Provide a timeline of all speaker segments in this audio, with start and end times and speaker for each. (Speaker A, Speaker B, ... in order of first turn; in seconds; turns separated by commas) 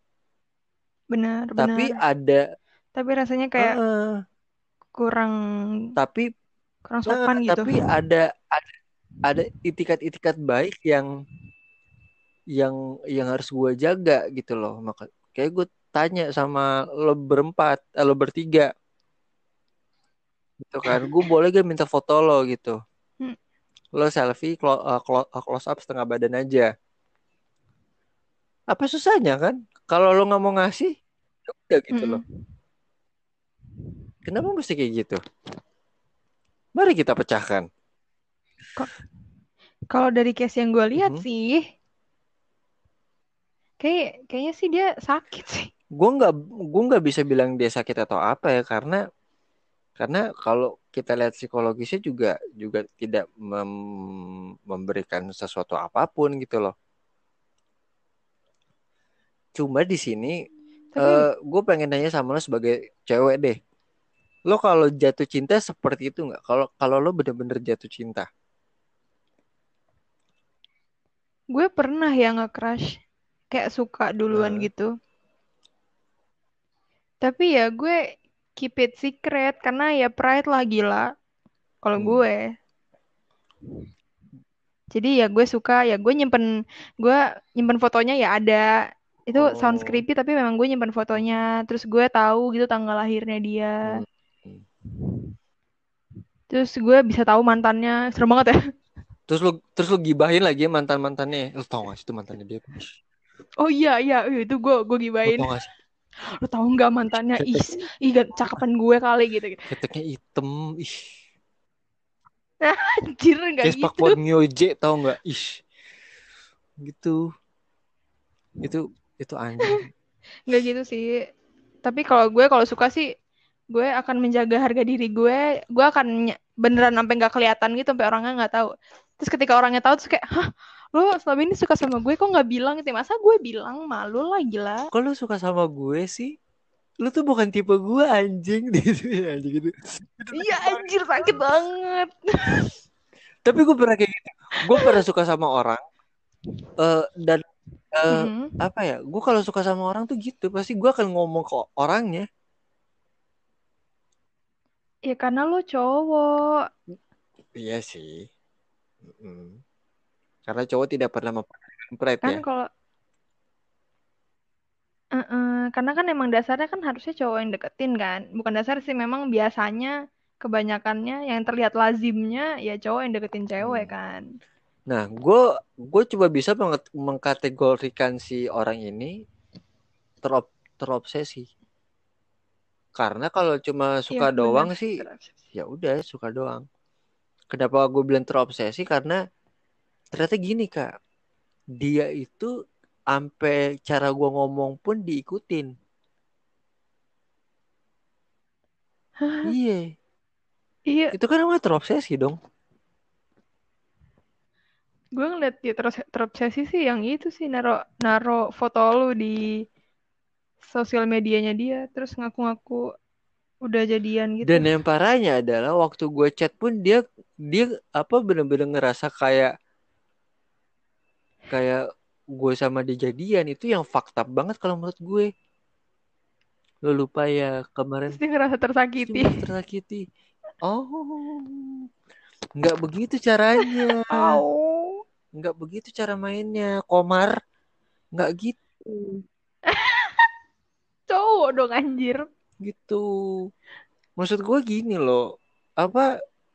Speaker A: 1.1-2.0, Speaker B: 1.6-2.4, Speaker A: 3.0-3.7, Speaker B: 3.6-4.2, Speaker A: 5.0-5.3, Speaker B: 6.0-6.3, Speaker A: 6.9-7.8, Speaker B: 7.1-11.1, Speaker B: 12.6-18.7, Speaker B: 20.6-22.8, Speaker B: 23.9-26.7, Speaker B: 28.7-30.9, Speaker B: 31.4-32.2, Speaker A: 31.9-32.2, Speaker B: 34.2-35.2, Speaker B: 36.8-37.7, Speaker A: 39.9-41.6, Speaker B: 41.0-41.2, Speaker A: 43.8-45.7, Speaker B: 46.0-49.0, Speaker B: 50.0-56.7, Speaker B: 59.5-60.4, Speaker A: 60.9-61.3, Speaker B: 61.0-63.6, Speaker B: 64.5-68.3, Speaker A: 71.5-73.0, Speaker A: 73.5-74.9, Speaker B: 74.3-74.7, Speaker A: 77.2-81.1, Speaker A: 81.8-82.5, Speaker B: 82.0-82.2, Speaker A: 84.9-86.5, Speaker A: 87.0-88.7, Speaker A: 89.3-94.0, Speaker B: 89.3-90.0, Speaker B: 93.9-94.6, Speaker A: 96.5-98.6, Speaker B: 99.3-102.9, Speaker A: 103.6-105.5, Speaker B: 105.2-105.7, Speaker A: 106.3-109.6, Speaker B: 107.4-107.8, Speaker B: 109.7-111.1, Speaker A: 112.6-114.2, Speaker B: 113.6-115.6, Speaker B: 116.8-117.2, Speaker B: 118.6-119.9, Speaker A: 120.5-121.2, Speaker A: 121.8-123.0, Speaker A: 123.7-134.9, Speaker B: 134.9-136.3, Speaker B: 137.0-141.4, Speaker A: 140.3-142.7, Speaker B: 143.4-145.8, Speaker B: 146.8-152.3, Speaker A: 148.1-148.6, Speaker A: 155.1-156.6, Speaker B: 157.6-158.3, Speaker B: 159.0-159.6, Speaker B: 160.5-162.4, Speaker A: 162.2-162.7, Speaker A: 165.2-174.2, Speaker B: 173.6-173.9, Speaker B: 174.9-179.1, Speaker B: 180.2-181.5, Speaker B: 183.0-185.0, Speaker A: 184.1-185.3, Speaker B: 185.5-186.6, Speaker B: 187.5-189.2, Speaker B: 190.1-190.9, Speaker B: 191.8-192.5, Speaker B: 193.1-195.7, Speaker A: 199.2-199.5, Speaker B: 199.4-199.9, Speaker A: 200.9-201.1, Speaker B: 201.1-202.4, Speaker A: 205.2-209.4, Speaker A: 210.6-212.8, Speaker A: 213.6-214.7, Speaker B: 214.4-219.5, Speaker B: 221.5-221.8, Speaker B: 222.3-225.3, Speaker B: 226.9-228.2, Speaker A: 228.1-229.3, Speaker B: 229.0-230.0, Speaker B: 230.6-231.9, Speaker B: 232.6-234.4, Speaker A: 233.6-235.0, Speaker B: 235.3-237.3, Speaker B: 238.1-239.2, Speaker A: 239.7-240.3, Speaker A: 241.1-242.2, Speaker B: 242.6-243.0, Speaker B: 244.2-245.2, Speaker B: 245.8-246.1